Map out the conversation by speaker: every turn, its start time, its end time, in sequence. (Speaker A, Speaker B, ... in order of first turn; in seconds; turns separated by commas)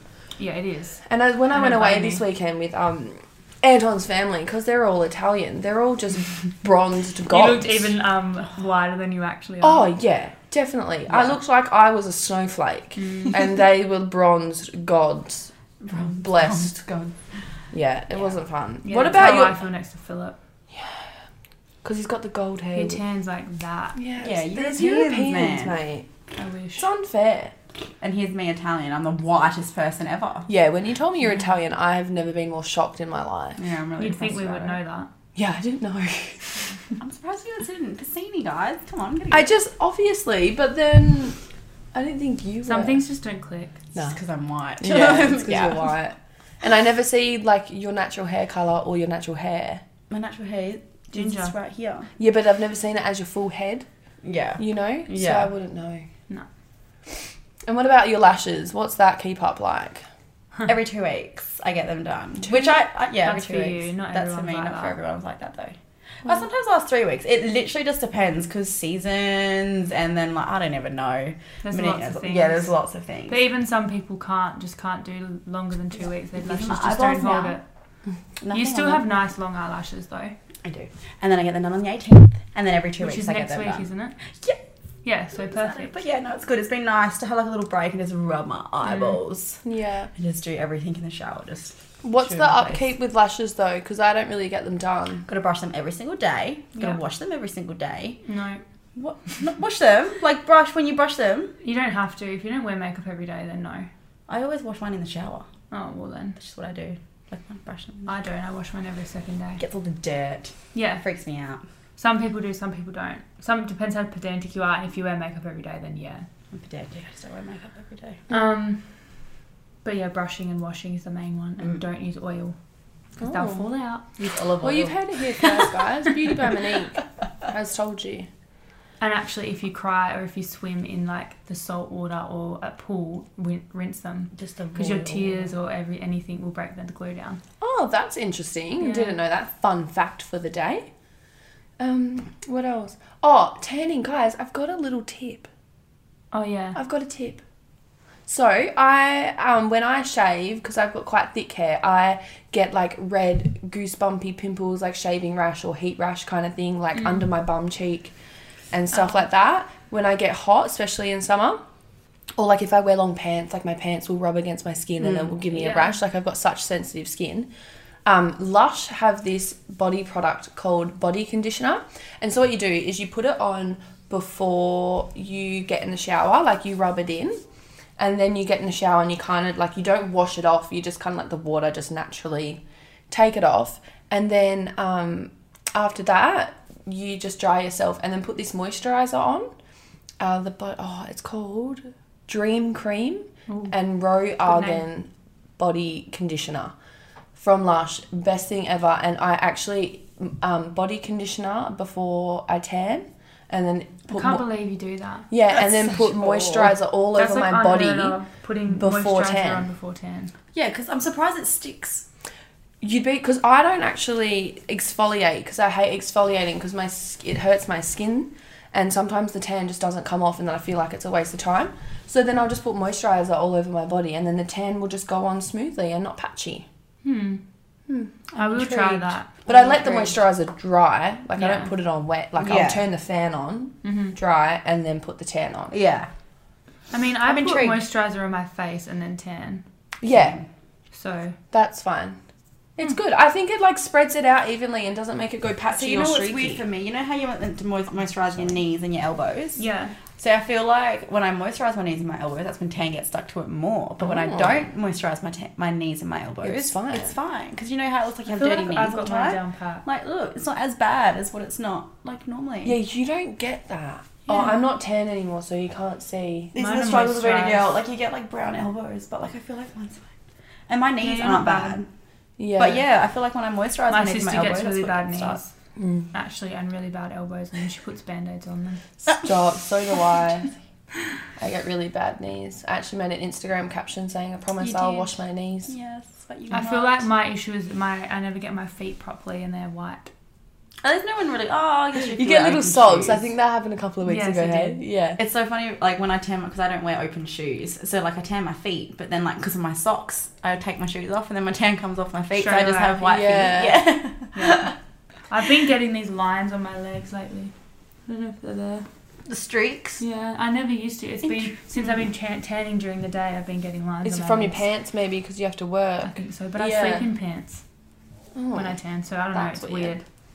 Speaker A: 0.4-2.2, Speaker B: 1.1-7.8, Speaker A: 7.3-9.9, Speaker B: 9.6-16.8, Speaker C: 11.1-11.3, Speaker A: 13.0-13.4, Speaker C: 15.9-17.1, Speaker B: 17.7-19.6, Speaker A: 18.8-20.4, Speaker B: 20.7-21.1, Speaker B: 21.8-23.0, Speaker A: 22.7-24.0, Speaker B: 23.9-26.1, Speaker C: 24.2-25.8, Speaker A: 26.4-26.9, Speaker B: 26.8-27.5, Speaker C: 28.0-30.5, Speaker B: 30.5-33.6, Speaker C: 33.6-34.8, Speaker A: 34.0-35.1, Speaker B: 35.3-36.6, Speaker C: 37.0-39.5, Speaker B: 39.3-41.4, Speaker B: 41.9-43.0, Speaker A: 42.6-43.7, Speaker C: 44.1-45.9, Speaker B: 44.8-49.8, Speaker C: 50.1-52.1, Speaker A: 51.1-51.5, Speaker B: 52.2-53.9, Speaker C: 54.2-55.5, Speaker B: 54.6-56.0, Speaker B: 57.6-60.0, Speaker C: 60.6-73.4, Speaker B: 62.5-62.7, Speaker A: 63.2-65.0, Speaker A: 71.6-72.7, Speaker A: 73.3-77.6, Speaker C: 76.4-77.6, Speaker C: 78.4-79.0, Speaker A: 78.5-80.3, Speaker C: 80.6-84.6, Speaker A: 83.0-84.2, Speaker A: 85.0-86.0, Speaker C: 85.3-89.6, Speaker A: 88.8-89.2, Speaker B: 89.6-90.1, Speaker C: 90.2-92.8, Speaker B: 92.0-95.2, Speaker C: 95.3-98.2, Speaker A: 98.2-98.6, Speaker C: 99.0-101.5, Speaker A: 101.6-103.9, Speaker C: 104.3-105.5, Speaker A: 105.7-106.4, Speaker C: 106.4-108.1, Speaker A: 108.1-109.6, Speaker C: 109.6-111.6, Speaker A: 110.7-111.0, Speaker A: 112.0-116.2, Speaker C: 116.5-118.2, Speaker A: 118.3-119.3, Speaker A: 119.8-122.5, Speaker B: 123.2-123.6, Speaker A: 123.2-124.2, Speaker C: 124.2-125.7, Speaker B: 124.6-128.3, Speaker A: 129.0-137.4, Speaker C: 134.3-135.5, Speaker B: 137.6-140.8, Speaker A: 138.8-139.2, Speaker B: 141.8-145.5, Speaker A: 146.3-146.8, Speaker B: 146.7-147.4, Speaker B: 148.2-158.1, Speaker B: 158.7-161.6, Speaker A: 158.9-159.2, Speaker B: 162.3-167.5, Speaker C: 165.0-165.3, Speaker A: 165.5-166.0, Speaker B: 168.1-177.4, Speaker B: 178.0-189.5, Speaker B: 190.2-196.7, Speaker A: 193.5-193.7, Speaker A: 194.5-194.8, Speaker B: 197.3-204.4, Speaker A: 204.1-205.3, Speaker B: 205.3-208.2, Speaker C: 205.8-206.7, Speaker A: 207.1-210.3, Speaker B: 208.7-209.7, Speaker C: 210.5-212.0, Speaker B: 212.8-226.6, Speaker A: 227.0-227.4, Speaker B: 227.9-228.1, Speaker A: 228.3-230.1, Speaker C: 228.3-229.2, Speaker B: 229.4-235.8, Speaker A: 231.3-231.7, Speaker C: 232.4-232.8, Speaker A: 233.8-234.1, Speaker C: 235.7-236.1, Speaker A: 236.9-239.6, Speaker C: 237.3-237.8, Speaker B: 240.0-240.4, Speaker C: 240.0-240.4, Speaker A: 240.9-241.4, Speaker B: 241.5-242.2, Speaker B: 242.8-246.6, Speaker C: 245.7-249.6, Speaker A: 249.6-249.9, Speaker C: 250.2-262.8, Speaker B: 254.0-254.6, Speaker B: 256.4-257.1, Speaker A: 258.3-259.8, Speaker B: 262.6-266.5, Speaker A: 266.5-267.6, Speaker C: 266.5-270.1, Speaker C: 270.7-271.9, Speaker A: 271.0-271.8, Speaker B: 272.4-272.8, Speaker C: 272.6-275.4, Speaker A: 273.9-275.5, Speaker B: 275.8-276.1, Speaker A: 276.1-278.8, Speaker B: 279.0-280.5, Speaker B: 281.4-285.7, Speaker C: 284.6-287.1, Speaker A: 286.5-290.1, Speaker C: 290.8-293.2, Speaker B: 292.1-295.2, Speaker A: 294.1-294.8, Speaker C: 295.2-304.7, Speaker A: 302.3-303.1, Speaker B: 303.1-303.9, Speaker A: 304.3-304.7, Speaker A: 305.3-307.5, Speaker A: 308.1-308.9, Speaker C: 309.3-310.0, Speaker A: 310.0-314.6, Speaker C: 311.3-311.5, Speaker B: 314.0-317.1, Speaker A: 316.0-317.6, Speaker B: 318.3-318.8, Speaker A: 318.5-320.0, Speaker B: 319.3-319.9